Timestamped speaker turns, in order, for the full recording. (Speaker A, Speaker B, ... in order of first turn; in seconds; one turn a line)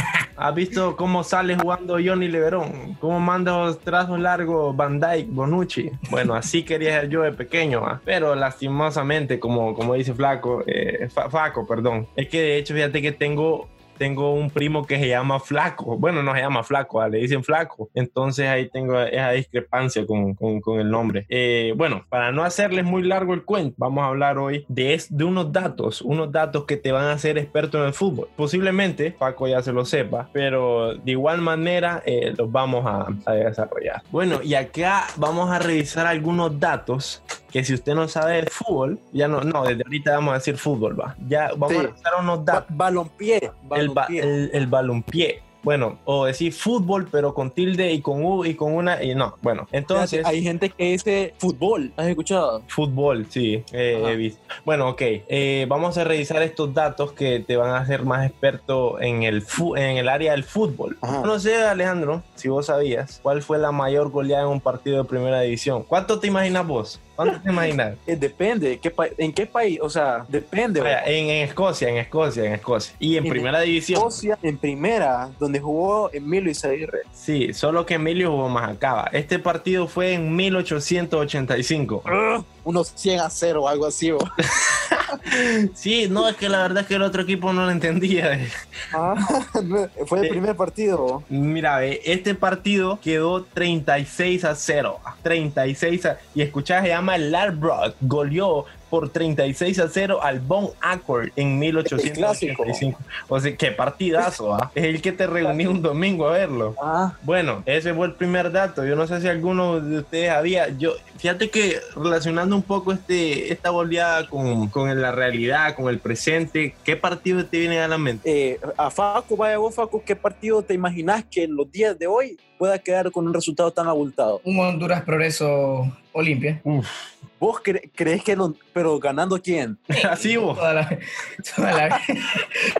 Speaker A: 0.4-42.7
Speaker B: 41.6-41.9
Speaker B: 42.5-44.3
Speaker A: 43.7-50.3
Speaker B: 49.9-52.7
Speaker A: 52.7-68.0
Speaker B: 53.9-54.2
Speaker B: 61.0-61.3
Speaker B: 68.1-71.0
Speaker A: 70.8-74.2
Speaker B: 73.2-77.0
Speaker A: 77.2-82.1
Speaker B: 82.1-84.2
Speaker A: 84.6-88.5
Speaker B: 88.9-91.2
Speaker A: 91.3-118.2
Speaker B: 101.9-102.8
Speaker B: 106.8-107.2
Speaker B: 118.2-124.4
Speaker C: 124.4-126.6
Speaker A: 126.6-127.1
Speaker B: 127.4-129.8
Speaker A: 129.9-130.6
Speaker C: 129.9-132.4